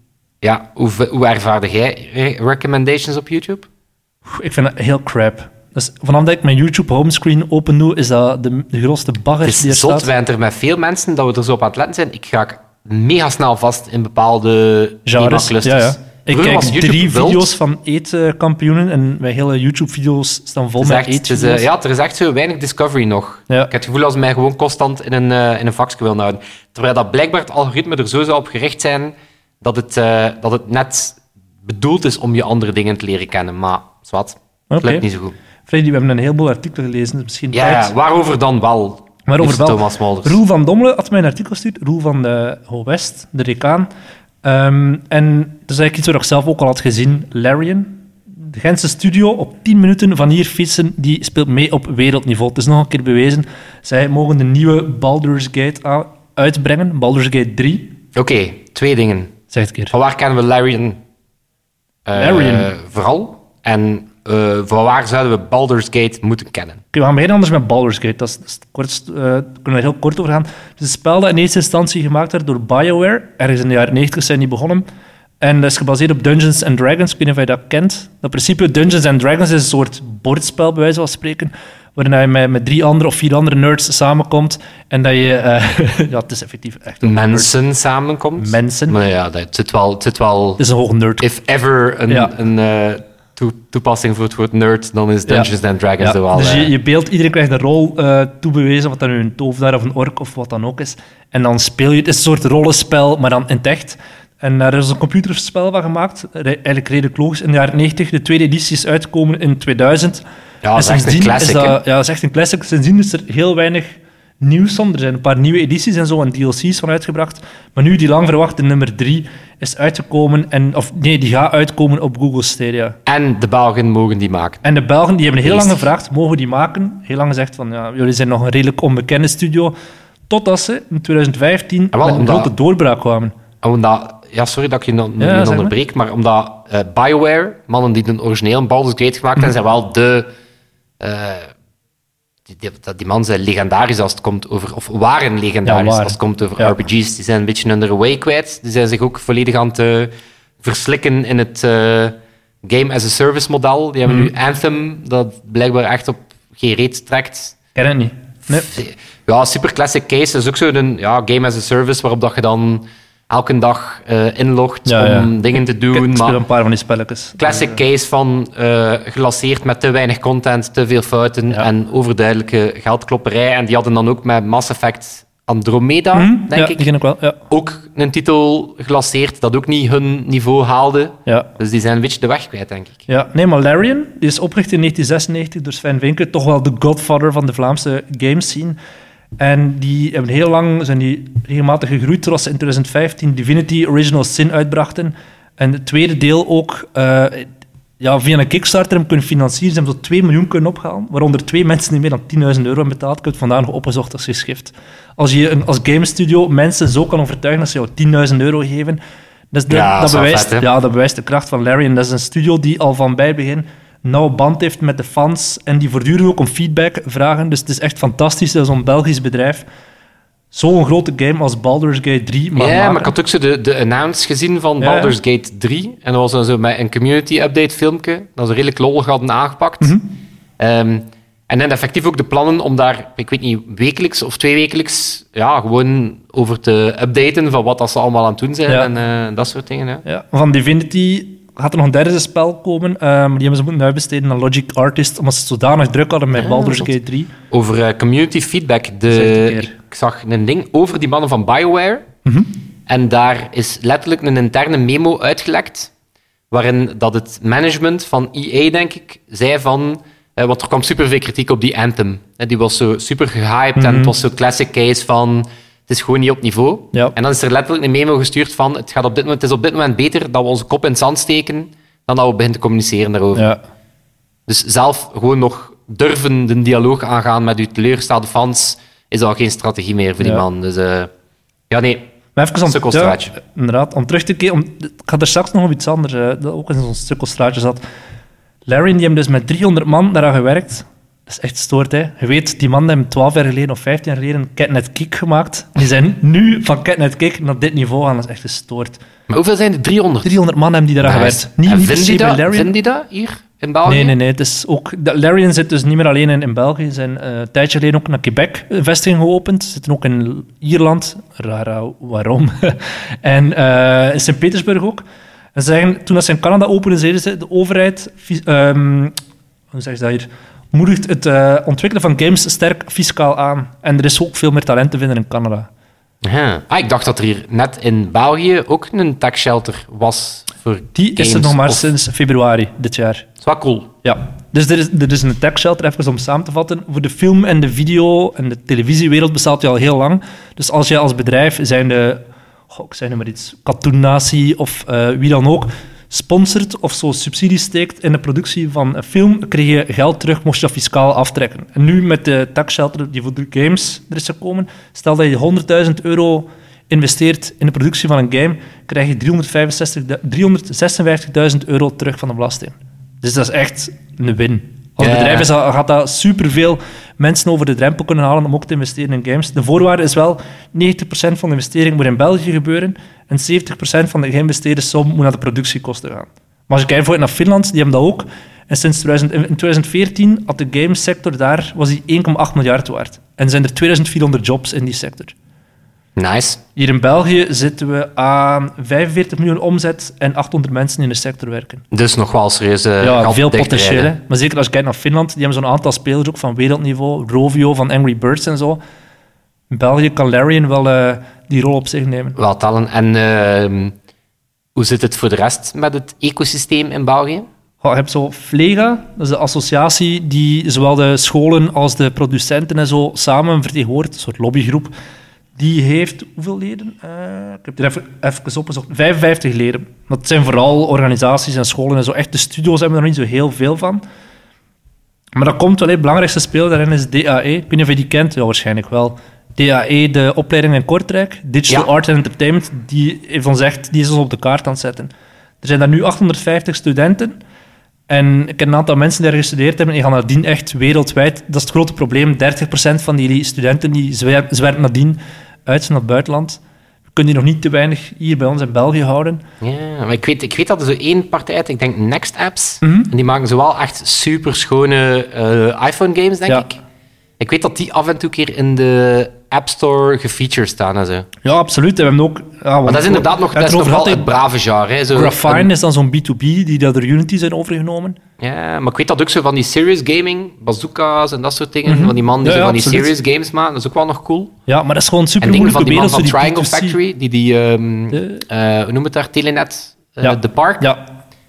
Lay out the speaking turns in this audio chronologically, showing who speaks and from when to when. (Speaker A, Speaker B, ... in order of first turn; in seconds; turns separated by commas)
Speaker A: 0.4-3.7, Speaker B: 4.3-10.1, Speaker A: 9.4-17.5, Speaker B: 15.1-21.6, Speaker A: 20.8-35.4, Speaker B: 34.7-35.0, Speaker B: 35.7-37.9, Speaker A: 37.5-40.4, Speaker B: 39.3-43.9, Speaker B: 44.4-58.0, Speaker A: 58.1-59.3, Speaker B: 59.5-59.9, Speaker A: 59.9-61.0, Speaker A: 62.1-66.8, Speaker B: 62.1-62.7, Speaker B: 66.9-74.8, Speaker B: 75.4-87.5, Speaker A: 87.0-90.6, Speaker B: 88.4-89.0, Speaker B: 90.6-91.2, Speaker A: 91.2-96.7, Speaker B: 92.1-92.3, Speaker B: 96.0-110.2, Speaker A: 110.6-111.8, Speaker B: 110.8-123.0, Speaker A: 123.1-124.6, Speaker B: 124.6-129.7, Speaker A: 125.4-125.9, Speaker B: 130.3-133.3, Speaker A: 131.9-132.5, Speaker A: 133.6-140.3, Speaker B: 135.2-135.7, Speaker A: 141.0-141.5, Speaker A: 142.5-157.6, Speaker B: 145.7-146.8, Speaker B: 157.8-158.7, Speaker A: 158.5-166.4, Speaker B: 164.9-165.3, Speaker B: 165.9-167.7, Speaker A: 167.4-176.9, Speaker B: 176.1-177.4, Speaker A: 177.5-183.1, Speaker B: 183.1-188.8, Speaker B: 189.4-209.0, Speaker B: 209.5-219.7, Speaker A: 209.7-210.7, Speaker B: 220.5-223.1, Speaker A: 222.6-230.0, Speaker B: 224.8-225.2, Speaker B: 229.8-230.1, Speaker A: 230.6-240.0, Speaker B: 240.1-247.3, Speaker A: 246.4-246.9, Speaker A: 247.5-252.1, Speaker B: 249.1-249.7, Speaker B: 252.2-252.5, Speaker A: 252.9-255.9, Speaker A: 256.5-273.5, Speaker B: 263.8-264.1, Speaker B: 273.3-273.6, Speaker A: 274.5-281.1, Speaker A: 281.7-282.0, Speaker B: 282.4-287.8, Speaker A: 282.7-283.4, Speaker B: 288.7-299.0, Speaker A: 299.3-300.3, Speaker B: 300.2-302.7, Speaker A: 301.0-304.1, Speaker B: 303.9-315.0, Speaker B: 315.6-319.2, Speaker B: 319.7-325.7, Speaker A: 326.2-331.9, Speaker B: 330.9-333.3, Speaker A: 333.4-333.9, Speaker B: 334.0-385.3, Speaker A: 365.0-365.5, Speaker A: 386.2-386.6, Speaker B: 386.8-391.8, Speaker A: 391.9-394.1, Speaker B: 393.0-398.8, Speaker B: 399.7-402.4, Speaker A: 402.4-403.9, Speaker A: 404.8-407.5, Speaker B: 407.8-414.9, Speaker B: 415.6-424.0, Speaker B: 425.4-435.1, Speaker B: 435.6-437.4, Speaker B: 438.1-446.6, Speaker B: 447.1-449.4, Speaker A: 449.6-456.8, Speaker B: 452.8-453.1, Speaker A: 457.4-461.3, Speaker B: 461.4-464.3, Speaker A: 462.9-465.7, Speaker B: 465.1-468.2, Speaker A: 468.4-474.5, Speaker B: 471.9-473.1, Speaker B: 474.7-477.0, Speaker A: 475.4-480.9, Speaker B: 478.1-478.4, Speaker B: 480.2-481.1